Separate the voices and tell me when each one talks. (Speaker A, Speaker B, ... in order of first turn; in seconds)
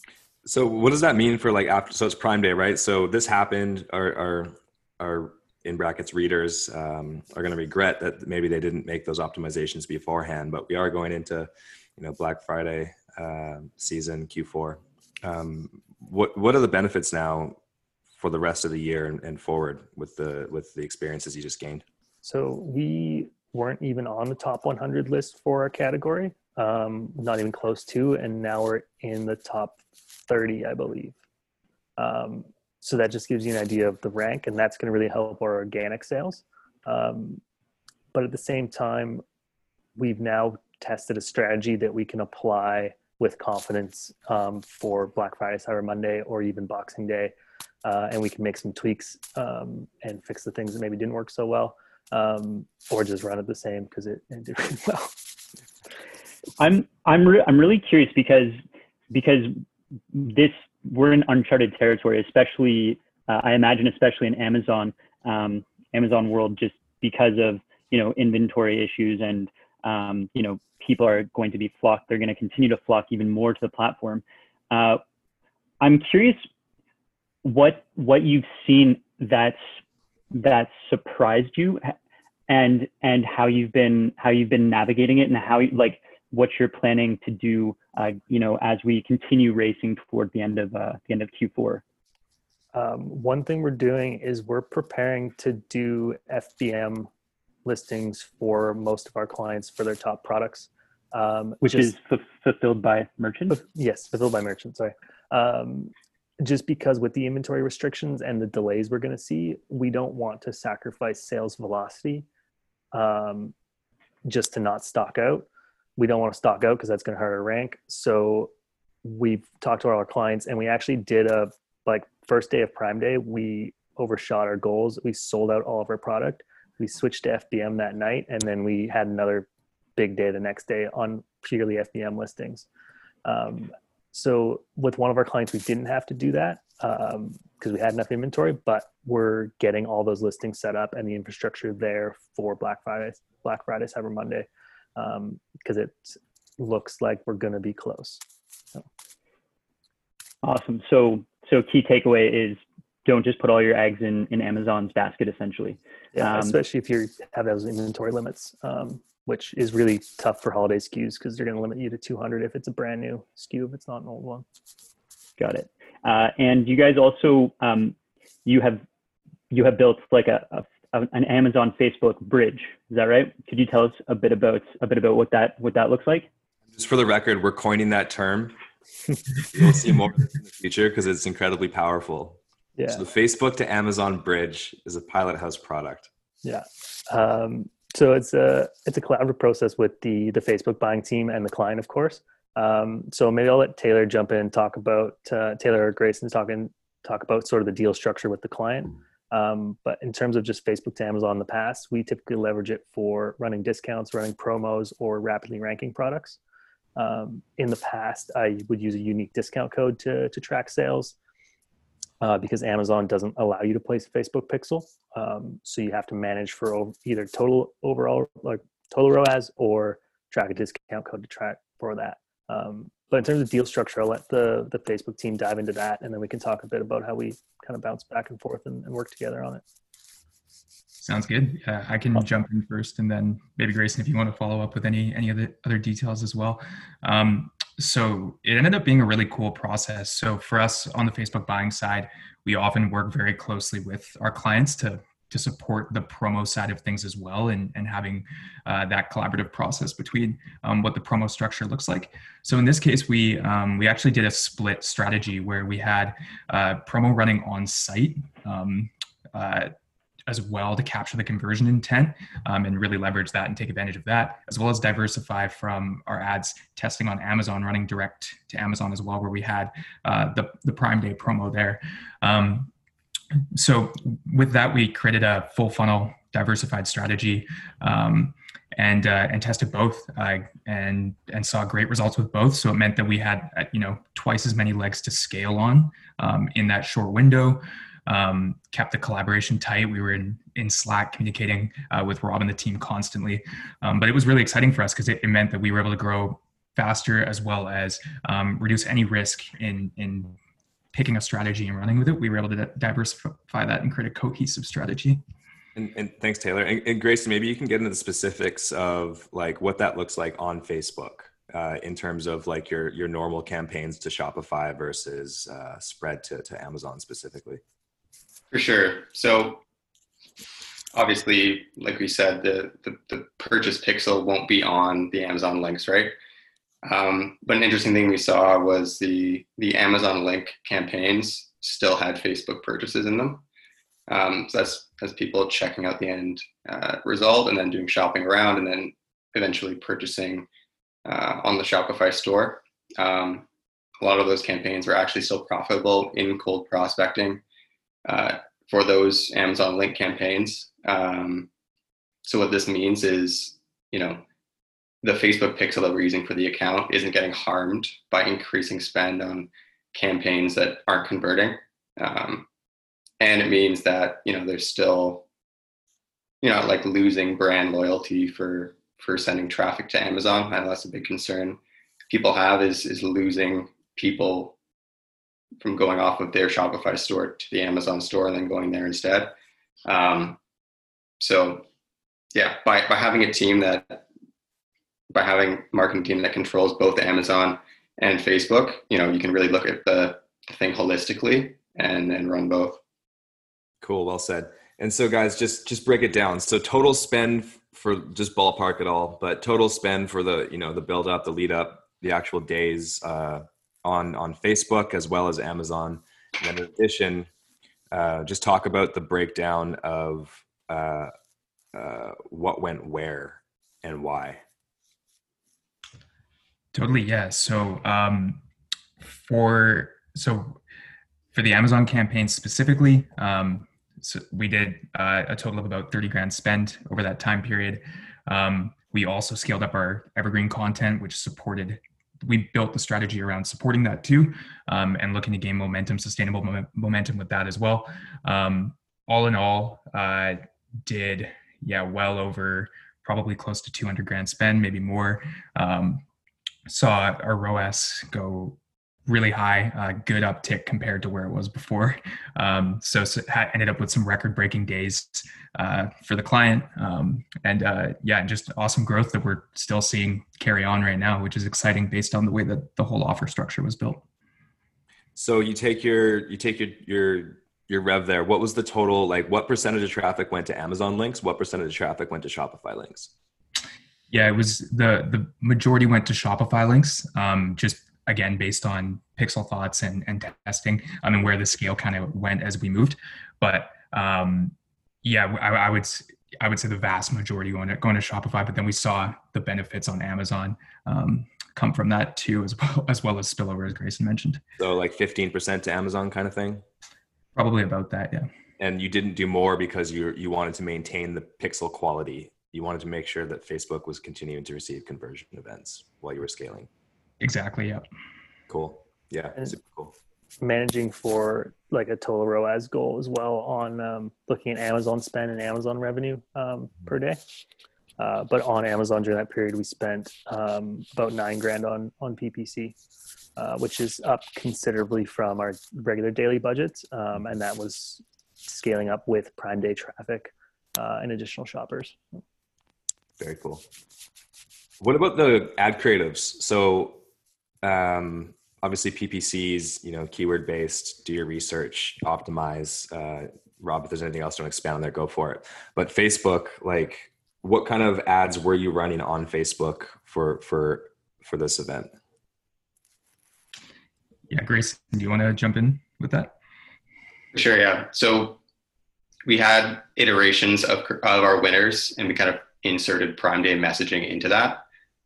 Speaker A: 0.5-17.6, 18.2-21.8, 176.7-178.6, 179.5-182.4, 182.9-186.1, 305.8-317.6, 393.8-407.3, 407.9-411.1, 411.8-414.4, 465.2-473.1, 494.6-496.6, 498.6-506.7, 508.5-509.9, 533.2-533.6, 534.8-537.0, 537.6-551.9
Speaker B: 22.2-31.2, 32.0-37.4, 38.1-39.2, 40.0-47.3, 47.8-55.1, 92.7-97.1, 97.7-101.9, 103.5-112.3, 112.9-113.5, 114.3-118.5, 119.0-132.7, 133.2-148.2, 156.2-164.4, 182.8-183.0, 186.4-206.4, 207.0-211.2, 212.2-229.6, 510.4-517.2, 518.0-522.8, 523.4-532.2
Speaker C: 56.6-58.6, 59.1-59.5, 60.1-75.0, 75.8-76.4, 77.4-79.6, 80.3-81.9, 82.5-91.8, 101.6-103.6, 150.4-156.6, 165.4-168.8, 169.5-176.3
Speaker D: 231.0-259.7, 260.3-272.7, 273.6-300.3, 300.9-305.2, 416.8-418.4, 419.2-420.6, 421.3-440.3, 440.9-446.0, 446.7-448.6, 449.1-464.0, 474.1-484.5, 485.0-494.4, 497.4-498.2, 507.2-507.8, 554.3-556.3
Speaker E: 318.5-319.6, 320.9-326.1, 326.9-333.4, 334.1-340.5, 341.1-343.4, 344.0-347.4, 348.1-351.5, 352.2-354.2, 355.0-362.5, 363.2-365.3, 366.4-374.6, 375.6-379.3, 379.9-380.4, 381.2-381.6, 382.3-384.0, 385.1-392.8, 557.3-558.4, 559.3-564.6